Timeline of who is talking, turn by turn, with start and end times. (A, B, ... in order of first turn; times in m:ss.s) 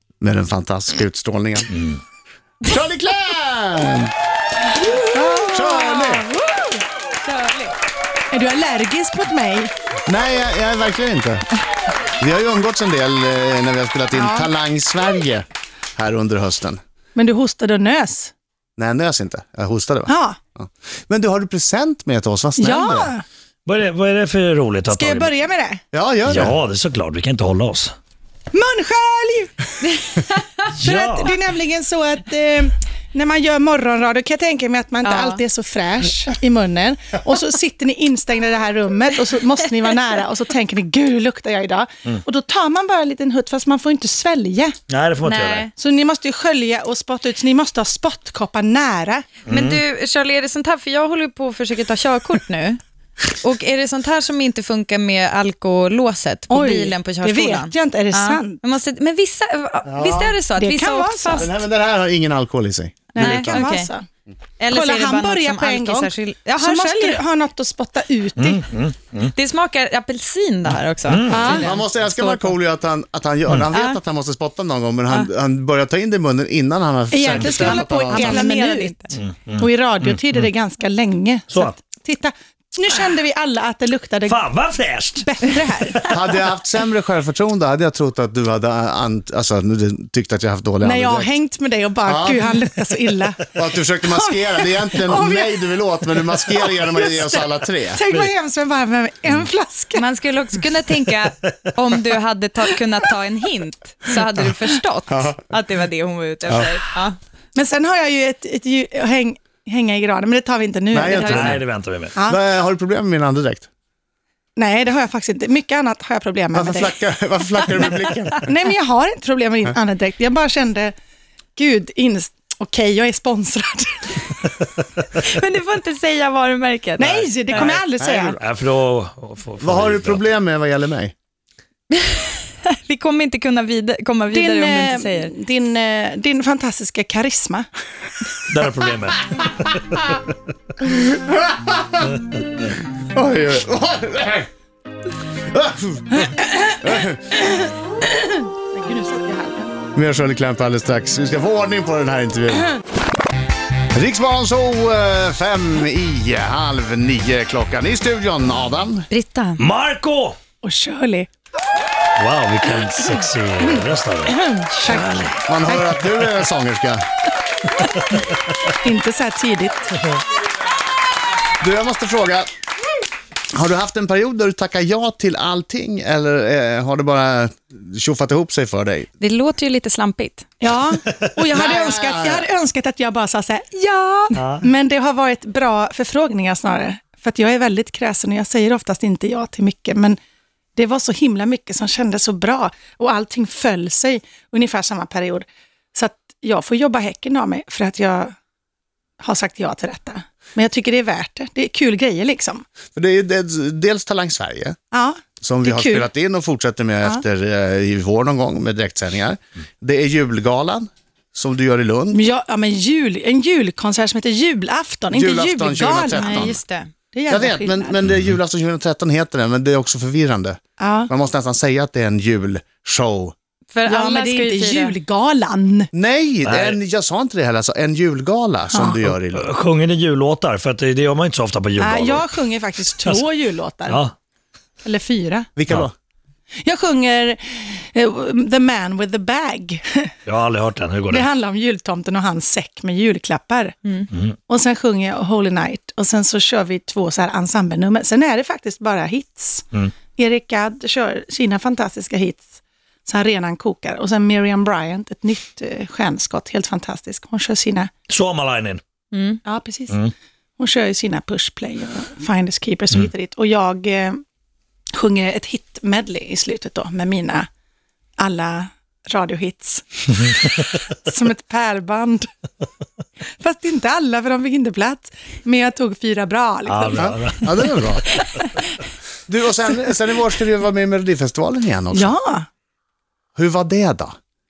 0:00.2-0:01.7 A
0:01.7-0:02.0 B
0:02.6-0:04.1 A
0:05.1-0:06.3 A
0:05.3-0:06.6 C
0:05.6-0:05.9 D
0:07.2-0:07.7 D
0:08.3-0:09.7 C
0:10.0-0:11.5 A
0:12.2-0:15.4 A
0:14.1-0:14.5 C
0:16.0-0:16.8 A
0:17.1-0:18.3 C
0:18.8-0:23.1 A
0:20.1-0:20.4 C
0:22.6-0:23.2 C
0:23.6-0:25.3 B
0:24.9-0:25.8 C
0:25.9-0:26.6 A
0:26.2-0:27.9 B
0:28.5-0:29.8 C
0:30.8-0:31.4 B
0:30.8-0:44.8 C
0:35.0-0:35.4 D
0:44.9-0:45.6 B
0:45.2-0:45.7 D
0:45.7-0:49.3 C
0:49.4-0:49.8 B
0:49.5-0:52.8 D
0:53.4-1:01.6 D
0:56.5-0:58.6 C
0:59.9-1:00.4 A
1:00.6-1:01.5 C
1:01.4-1:03.7 A
1:03.1-1:04.1 C
1:03.2-1:03.9 D
1:04.6-1:07.2 D
1:04.7-1:08.6 C
1:08.4-1:09.3 B
1:09.3-1:12.6 D
1:11.0-1:11.6 B
1:11.3-1:11.7 C
1:11.5-1:18.5 A
1:13.7-1:14.0 D
1:17.1-1:19.0 C
1:17.6-1:19.2 D
1:19.2-1:20.5 B
1:19.6-1:24.4 C
1:24.2-1:26.4 B
1:25.2-1:26.0 C
1:26.1-1:31.3 A
1:30.8-1:40.0 C
1:32.1-1:32.5 A
1:33.5-1:38.0 A
1:39.9-1:47.2 D
1:45.1-1:45.4 A
1:47.5-1:51.5 C
1:50.9-1:51.6 A
1:51.0-1:51.6 D
1:51.2-1:52.1 B
1:52.2-1:53.7 A
1:54.6-1:57.0 C
1:56.5-1:58.5 A
1:58.4-2:00.9 C
2:01.6-2:04.5 C
2:05.1-2:07.7 D
2:07.0-2:08.4 C
2:07.5-2:08.4 A
2:08.4-2:10.3 B
2:09.6-2:11.1 A
2:11.9-2:15.3 D
2:14.3-2:17.7 C
2:18.5-2:19.8 B
2:20.8-2:22.1 A
2:23.1-2:24.5 A
2:25.5-2:26.2 A
2:26.8-2:27.4 A
2:28.6-2:29.7 C
2:29.9-2:32.7 A
2:33.9-2:39.1 A
2:39.1-2:39.6 D
2:39.6-2:40.4 B
2:40.6-2:41.3 C
2:42.2-2:45.4 B
2:44.2-2:45.8 C
2:45.4-2:47.0 A
2:48.8-2:49.9 C
2:51.6-2:52.5 A
2:53.5-2:59.1 A
2:59.2-3:00.4 D
3:00.6-3:10.2 C
3:01.5-3:02.5 A
3:04.3-3:04.6 B
3:10.8-3:18.3 C
3:19.2-3:22.6 C
3:22.9-3:24.8 A
3:24.9-3:26.1 C
3:25.4-3:32.2 A
3:32.1-3:36.6 C
3:35.1-3:36.6 A
3:36.1-3:36.9 D
3:37.1-3:38.0 C
3:37.3-3:43.3 A
3:38.0-3:38.3 B
3:40.8-3:41.1 C
3:43.7-3:44.9 D
3:43.8-3:45.9 C
3:45.9-3:49.5 A
3:46.4-3:46.8 B
3:48.7-3:49.0 C
3:49.0-3:52.3 B
3:51.8-3:54.0 C
3:53.9-3:54.1 B
3:54.8-3:55.5 C
3:55.6-3:55.9 A
3:56.6-4:00.1 C
4:00.2-4:01.3 B
4:01.1-4:12.5 C
4:04.1-4:04.4 B
4:13.1-4:17.9 C
4:18.1-4:18.8 B
4:19.1-4:19.4 D
4:19.4-4:20.0 C
4:20.6-4:24.2 C
4:24.9-4:27.5 C
4:28.2-4:32.3 C
4:33.4-4:37.1 C
4:36.6-4:38.2 B
4:37.0-4:38.2 A
4:39.3-4:42.1 A
4:41.9-4:42.5 C
4:43.3-4:44.2 A